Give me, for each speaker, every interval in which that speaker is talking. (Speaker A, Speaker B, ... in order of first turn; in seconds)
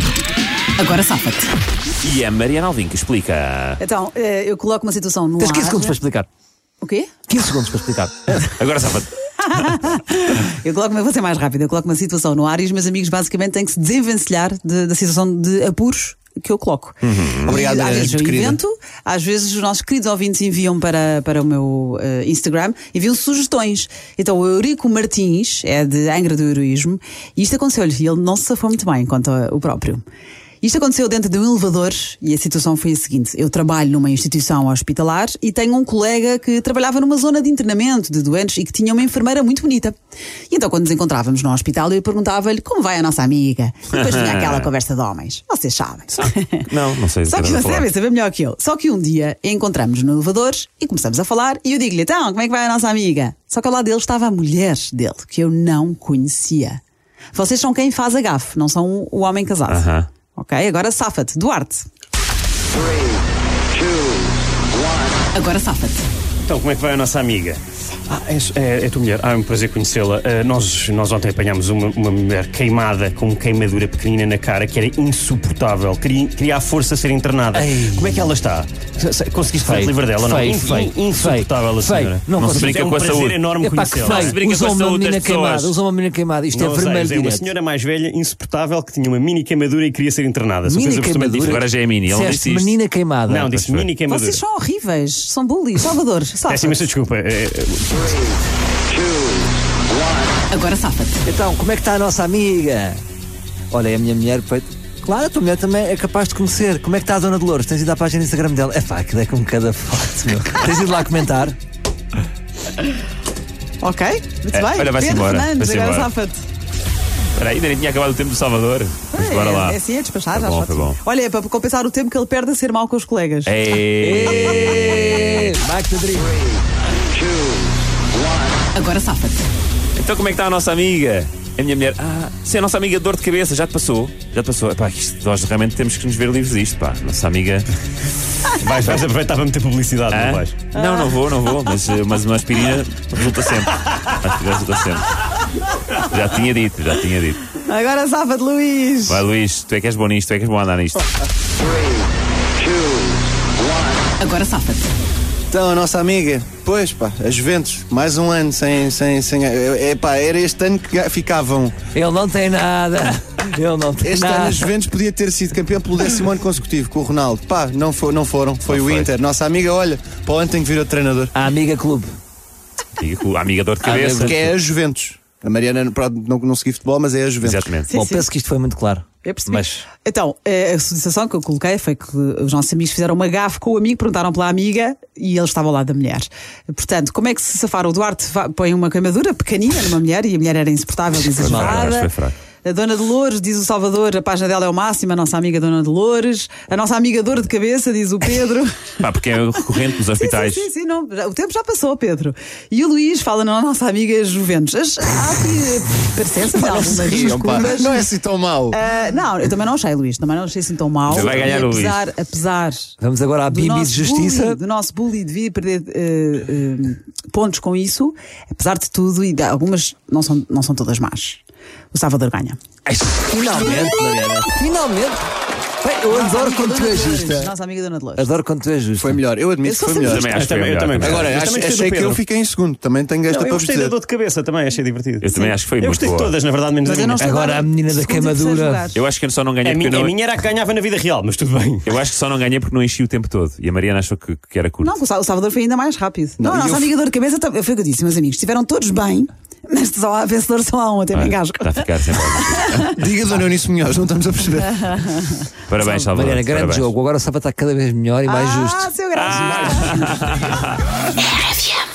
Speaker A: 0.8-1.5, 3.8-6.0, 6.8-7.1, 9.4-30.0, 30.6-39.9, 40.5-46.7, 47.2-56.8, 57.3-61.9, 65.3-66.1, 94.1-96.9, 100.5-101.2, 113.8-116.5, 119.1-123.5, 128.7-129.5, 140.7-141.2, 147.6-149.2, 154.2-154.9, 177.9-178.3, 179.2-192.1, 192.6-208.1, 208.7-212.9, 213.5-222.6, 226.1-228.3, 229.6-230.3, 236.8-239.0, 244.8-252.9, 254.8-255.3, 258.2-260.3
Speaker B: 2.0-3.8, 8.4-9.1, 17.0-17.6, 43.9-44.7, 46.1-47.9, 59.7-60.1, 82.3-83.4, 84.0-85.7, 91.4-92.7, 93.4-93.9, 114.5-116.1, 117.4-119.8, 120.3-121.0, 123.5-125.3, 129.9-137.7, 140.1-145.2, 146.0-147.5, 149.1-151.1, 168.7-169.1, 173.0-174.4, 177.4-177.9, 191.4-192.3, 199.0-200.7, 211.1-212.0, 230.0-231.4, 235.2-236.3, 238.9-240.1, 241.8-244.9, 251.1-252.9, 255.7-256.9, 259.2-260.8
Speaker C: 5.4-6.3, 7.3-8.4, 77.5-78.3, 79.5-82.8, 83.6-87.5, 90.7-93.5, 101.2-103.0, 103.7-111.6, 124.0-126.4, 161.9-164.7, 171.3-172.1, 173.8-174.5, 177.9-179.8, 191.4-191.9, 213.0-214.6, 222.8-225.2, 225.8-227.5, 228.2-229.2, 237.2-238.9, 256.1-258.9
Speaker D: 17.4-18.6, 155.5-161.8, 164.0-171.3, 174.2-177.7, 206.5-208.8, 229.0-230.4, 231.0-233.9, 246.4-246.9, 252.9-254.9
Speaker E: 66.4-84.4, 86.5-91.6, 93.3-94.4, 96.5-98.3, 138.6-140.6, 230.1-232.2, 233.3-237.3, 239.6-241.9